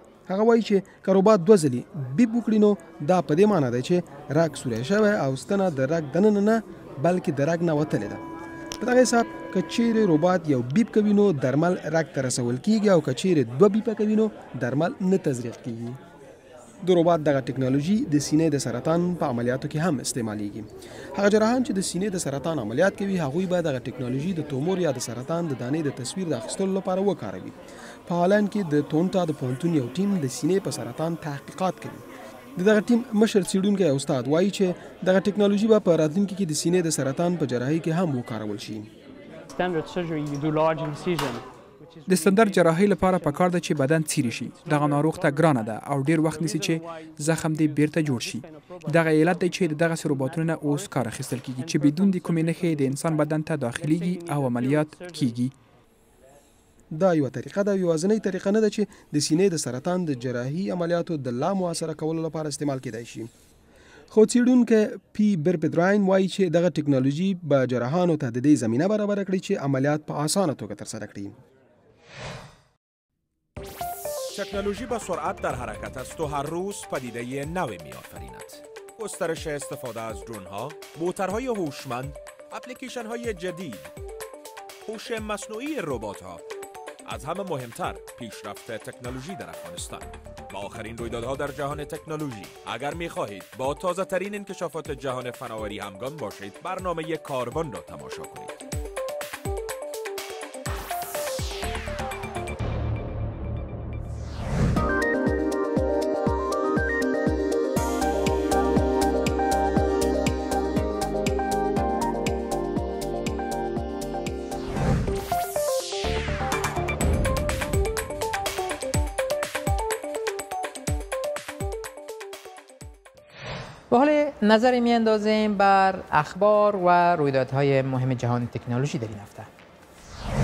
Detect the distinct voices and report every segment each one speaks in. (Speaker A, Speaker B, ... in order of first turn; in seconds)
Speaker A: 0.3-8.2, 8.8-16.0, 16.8-32.0, 32.6-38.9, 56.9-63.3, 64.1-71.4
Speaker B: 39.5-43.5, 44.6-55.4
Speaker C: 42.1-55.5
Speaker D: 74.3-83.9, 84.9-86.4, 87.0-98.5
Speaker E: 123.9-129.5